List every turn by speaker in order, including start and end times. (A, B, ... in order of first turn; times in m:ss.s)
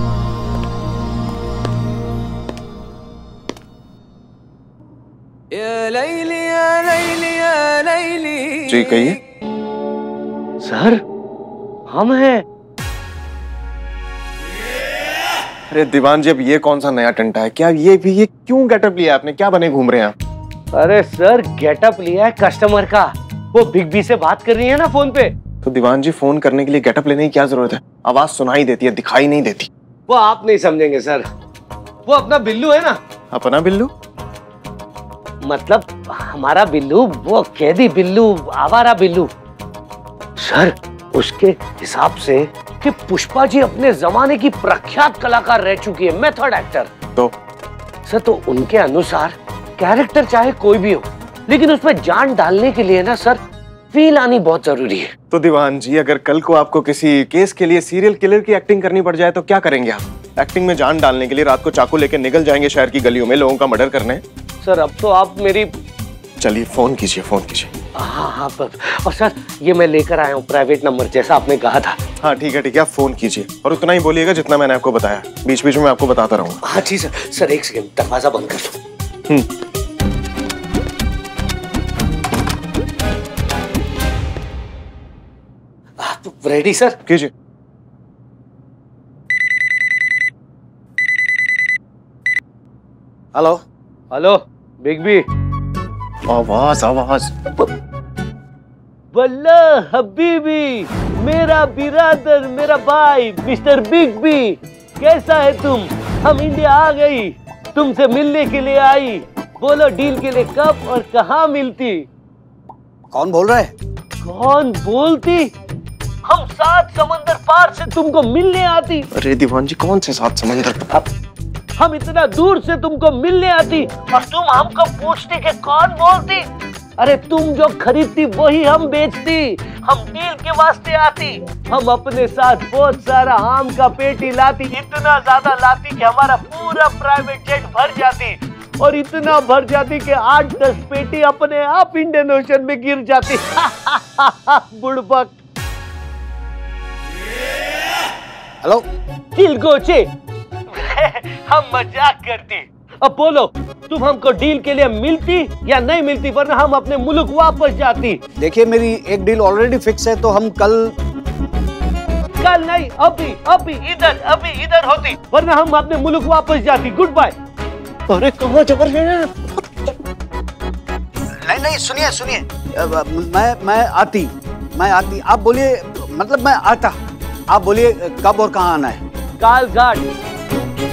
0:08.6-0:09.2 A
0:10.6-0:11.0 B
0:11.9-0:12.4 B
0:15.7-0:20.1 A
0:20.7-0:25.3 B
0:25.6-0:29.7 A
0:30.1-0:31.2 B
0:32.1-0:33.0 B
0:33.3-0:33.9 A
0:35.4-0:39.3 B
0:40.4-0:46.9 B
0:48.1-0:53.4 B
0:53.9-0:55.1 B
0:55.3-1:04.2 A
1:04.6-1:05.7 B
1:06.4-1:07.7 A
1:08.0-1:12.0 B
1:12.2-1:16.6 A
1:16.6-1:18.8 B
1:26.0-1:27.0 B
1:27.1-1:27.3 A
1:33.3-1:33.6 C
1:34.1-1:35.2 B
1:36.3-1:37.3 A
1:39.1-1:52.0 B
1:53.1-1:53.7 C
1:54.2-1:55.5 B
1:56.2-1:59.1 B
1:59.1-2:00.8 A
2:01.8-2:06.4 B
2:07.0-2:25.3 B
2:29.4-2:30.1 B
2:30.7-2:38.2 B
2:38.4-2:40.9 C
2:42.4-2:47.3 B
2:48.1-2:49.5 B
2:51.4-2:56.9 C
2:57.5-2:59.0 C
2:59.4-3:00.0 B